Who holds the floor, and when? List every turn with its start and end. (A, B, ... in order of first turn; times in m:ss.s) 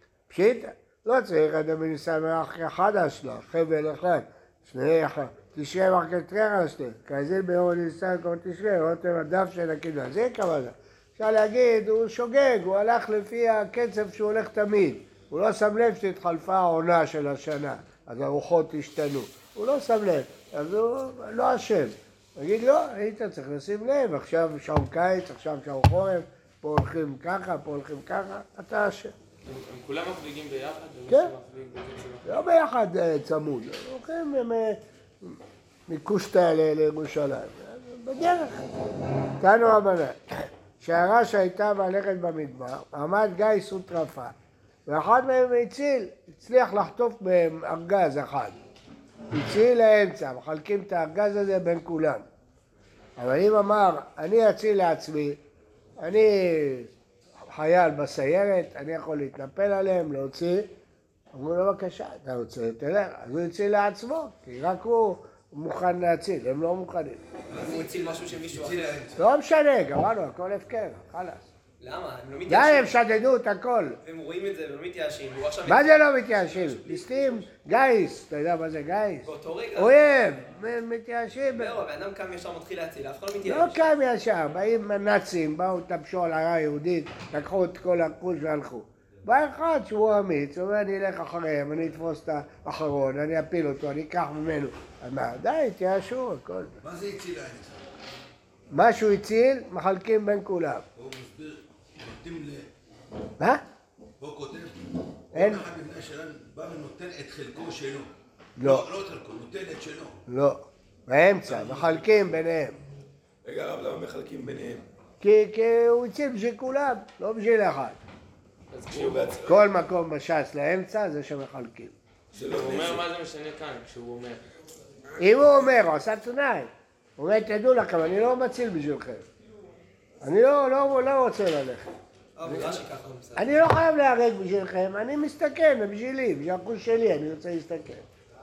0:00.3-0:29.1 A
0:29.4-0:32.4 B
0:31.1-0:31.3 A
0:32.2-0:38.6 A
0:39.4-0:44.3 A
0:44.9-0:48.6 A
0:49.3-0:52.2 A
0:53.2-0:55.4 A
0:56.0-0:56.9 A
0:57.5-1:00.7 A
1:01.3-1:07.2 A
1:07.5-1:09.3 C
1:07.5-1:09.0 D
1:09.2-1:11.5 A
1:11.8-1:13.0 D
1:12.5-1:14.0 A
1:14.0-1:17.6 D
1:15.6-1:21.7 A
1:19.2-1:20.1 D
1:21.4-1:23.9 D
1:23.4-1:36.8 A
1:36.8-1:37.8 C
1:38.7-1:40.8 A
1:41.0-1:42.7 C
1:44.2-1:44.8 C
1:45.3-1:50.2 C
1:45.3-1:45.6 A
1:48.6-1:48.8 A
1:50.3-1:52.8 A
1:51.4-1:52.3 C
1:53.4-1:54.8 E
1:55.2-1:58.0 A
1:58.7-1:59.4 B
1:58.9-1:59.7 E
1:59.4-2:01.9 A
2:02.3-2:03.0 E
2:02.4-2:04.4 B
2:05.2-2:09.2 A
2:10.2-2:11.9 A
2:12.4-2:13.5 D
2:12.4-2:12.8 A
2:13.4-2:18.0 A